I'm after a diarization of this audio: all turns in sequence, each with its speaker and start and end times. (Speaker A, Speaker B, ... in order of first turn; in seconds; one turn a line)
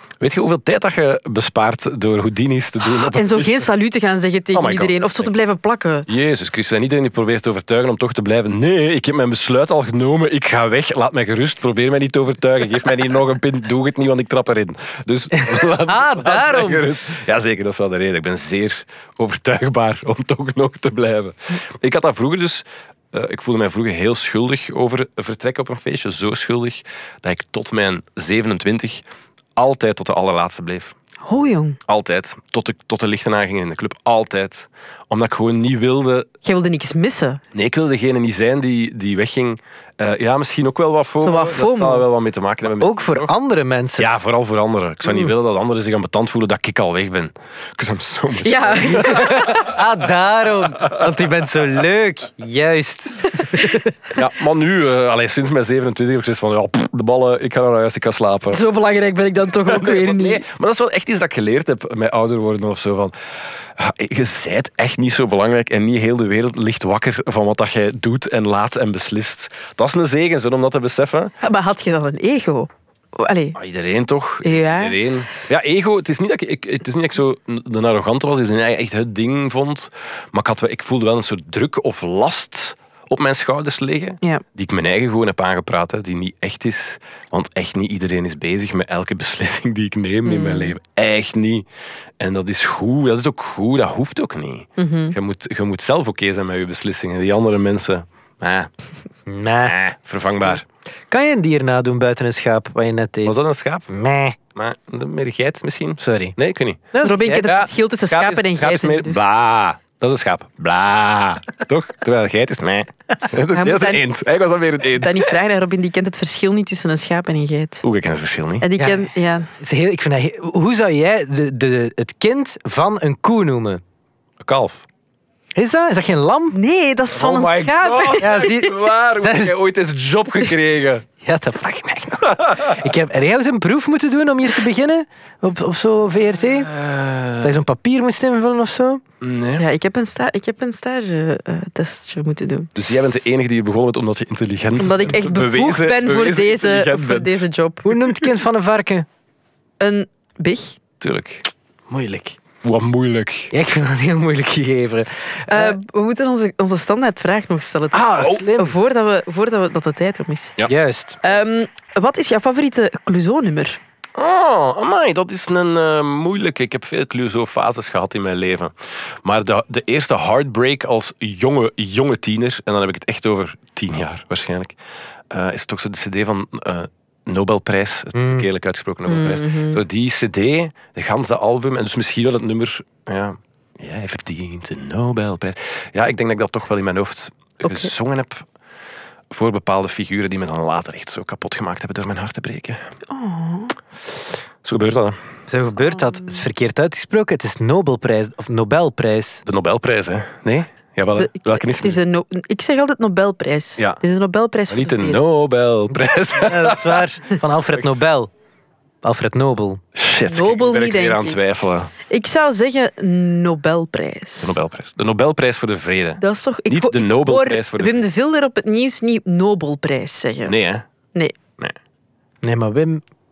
Speaker A: 0.2-3.7
Speaker B: 3.0-6.1
Speaker A: 4.5-5.3
Speaker A: 6.1-29.0
Speaker C: 15.3-16.9
Speaker A: 29.6-31.0
Speaker B: 31.2-31.8
Speaker A: 31.9-36.3
Speaker B: 36.4-37.4
Speaker A: 37.5-43.3
Speaker B: 41.2-42.1
Speaker C: 42.8-44.1
Speaker A: 44.0-49.8
Speaker B: 48.4-49.4
Speaker C: 48.9-53.9
Speaker A: 54.1-58.6
Speaker B: 58.5-60.4
Speaker A: 59.7-71.3
Speaker B: 71.4-73.6
Speaker A: 73.5-91.7
Speaker B: 74.4-75.0
Speaker B: 90.2-90.7
Speaker A: 92.2-98.7
Speaker B: 94.8-95.2
Speaker C: 99.3-99.8
Speaker A: 99.6-100.7
Speaker C: 101.1-103.3
Speaker A: 103.2-103.9
Speaker C: 103.9-104.4
Speaker A: 104.5-106.8
Speaker C: 106.0-106.4
Speaker C: 106.9-107.5
Speaker B: 107.0-109.2
Speaker A: 107.4-115.3
Speaker B: 113.5-114.0
Speaker B: 114.9-117.8
Speaker A: 117.8-118.7
Speaker B: 118.6-119.5
Speaker C: 118.8-123.8
Speaker A: 124.4-124.9
Speaker C: 125.6-126.6
Speaker B: 126.5-128.4
Speaker A: 127.1-131.1
Speaker C: 128.2-129.5
Speaker C: 131.2-136.8
Speaker A: 136.5-137.5
Speaker C: 137.4-139.0
Speaker A: 139.2-139.7
Speaker B: 139.6-142.7
Speaker A: 142.8-147.5
Speaker B: 144.8-147.9
Speaker C: 147.8-149.1
Speaker B: 149.8-150.8
Speaker A: 151.0-151.5
Speaker C: 151.9-152.4
Speaker A: 152.6-153.5
Speaker C: 153.5-155.8
Speaker B: 155.5-160.6
Speaker C: 157.9-158.7
Speaker A: 158.0-158.4
Speaker C: 160.7-161.2
Speaker B: 161.2-163.8
Speaker A: 164.2-174.8
Speaker A: 175.3-188.5
Speaker C: 178.2-178.5
Speaker B: 179.1-179.8
Speaker B: 187.6-187.9
Speaker A: 189.3-192.8
Speaker B: 193.1-193.7
Speaker A: 194.6-195.2
Speaker C: 195.5-199.4
Speaker A: 199.4-202.0
Speaker B: 201.2-205.2
Speaker A: 204.7-207.1
Speaker C: 206.3-208.3
Speaker C: 209.0-209.8
Speaker A: 209.9-211.9
Speaker B: 210.3-211.4
Speaker B: 212.1-214.6
Speaker A: 214.4-218.1
Speaker B: 216.2-220.6
Speaker A: 220.4-220.9
Speaker C: 222.4-223.0